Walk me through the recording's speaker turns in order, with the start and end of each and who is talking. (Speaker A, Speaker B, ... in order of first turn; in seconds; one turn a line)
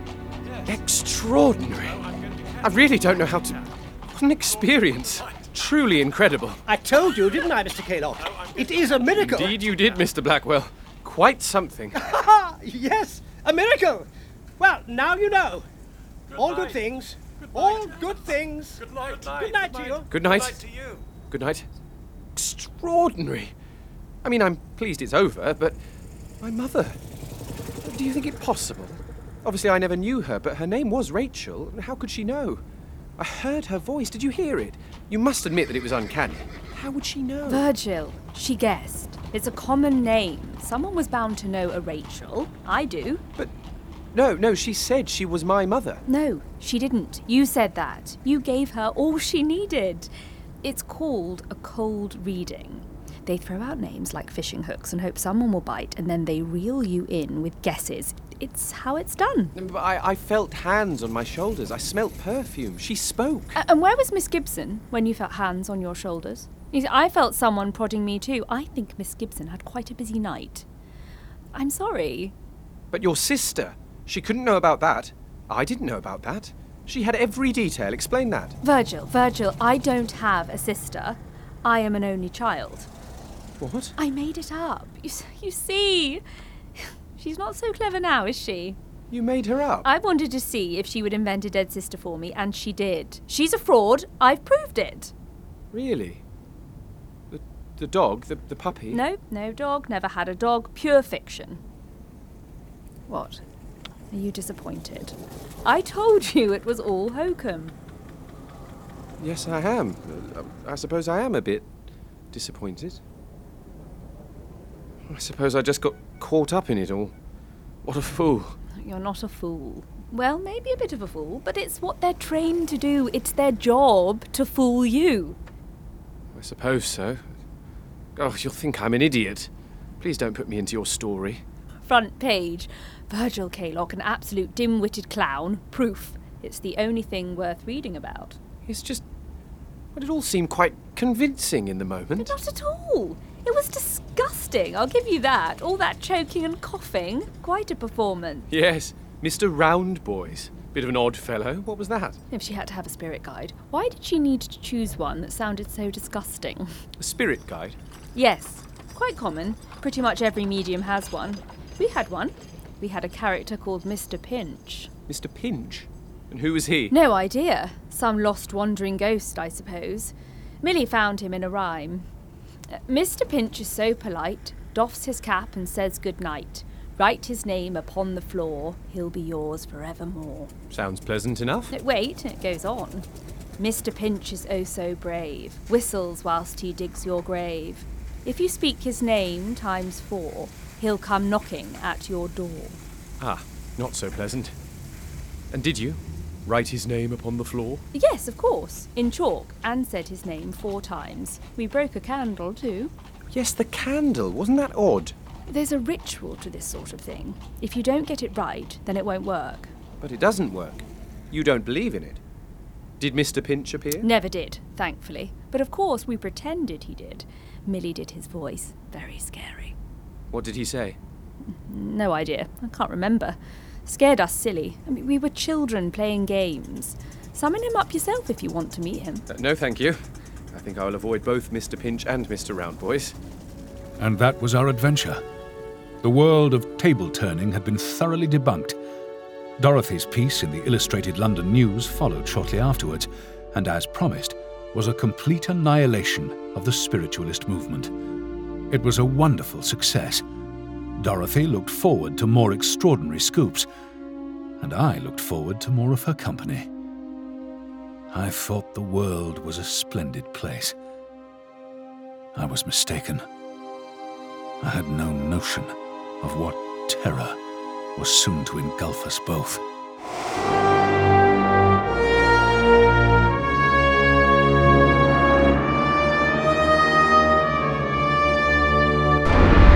Speaker A: 0.6-6.6
Speaker B: 2.0-2.6
Speaker C: 6.7-9.6
Speaker B: 8.3-9.1
Speaker A: 9.1-12.0
Speaker C: 11.9-15.7
Speaker B: 16.4-16.8
Speaker C: 16.4-20.1
Speaker B: 17.6-18.2
Speaker B: 18.8-21.1
Speaker A: 20.1-20.7
Speaker A: 21.2-21.7
Speaker A: 22.4-23.6
Speaker A: 24.2-25.8
Speaker A: 26.4-27.0
Speaker A: 27.8-32.6
Speaker A: 33.2-37.7
Speaker D: 37.5-43.2
Speaker A: 44.1-46.0
Speaker D: 46.1-50.1
Speaker D: 50.6-59.5
Speaker A: 59.5-63.6
Speaker D: 63.5-70.7
Speaker D: 71.5-72.3
Speaker A: 72.9-78.6
Speaker D: 78.6-82.9
Speaker A: 83.6-84.0
Speaker D: 84.0-86.2
Speaker D: 86.8-88.8
Speaker A: 89.1-89.9
Speaker D: 89.8-95.1
Speaker A: 95.7-96.2
Speaker A: 97.3-99.0
Speaker D: 98.9-101.6
Speaker D: 103.1-103.4
Speaker D: 104.1-107.8
Speaker A: 109.2-111.7
Speaker A: 112.3-113.0
Speaker A: 115.1-117.2
Speaker A: 117.8-118.6
Speaker D: 118.8-125.4
Speaker A: 126.3-127.3
Speaker A: 128.2-131.4
Speaker D: 131.8-138.4
Speaker A: 138.7-139.0
Speaker A: 139.9-142.3
Speaker D: 142.2-148.5
Speaker A: 148.5-152.2
Speaker D: 152.3-156.8
Speaker A: 157.0-157.8
Speaker D: 158.2-164.9
Speaker A: 165.1-166.9
Speaker D: 166.9-172.1
Speaker D: 172.7-180.5
Speaker A: 180.7-181.7
Speaker D: 181.7-183.1
Speaker D: 183.6-192.8
Speaker A: 193.2-194.6
Speaker A: 195.5-197.8
Speaker D: 197.9-202.9
Speaker A: 203.3-205.2
Speaker D: 205.5-209.7
Speaker A: 210.0-212.2
Speaker A: 213.0-214.1
Speaker D: 214.0-219.8
Speaker A: 220.3-221.0
Speaker D: 221.5-229.3
Speaker A: 229.3-233.2
Speaker E: 234.0-235.2
Speaker E: 236.0-238.8
Speaker E: 239.6-247.9
Speaker E: 248.7-250.2
Speaker E: 251.0-253.7
Speaker E: 254.6-256.7
Speaker E: 258.1-260.8
Speaker E: 262.4-263.3
Speaker E: 264.6-267.4
Speaker E: 268.0-269.6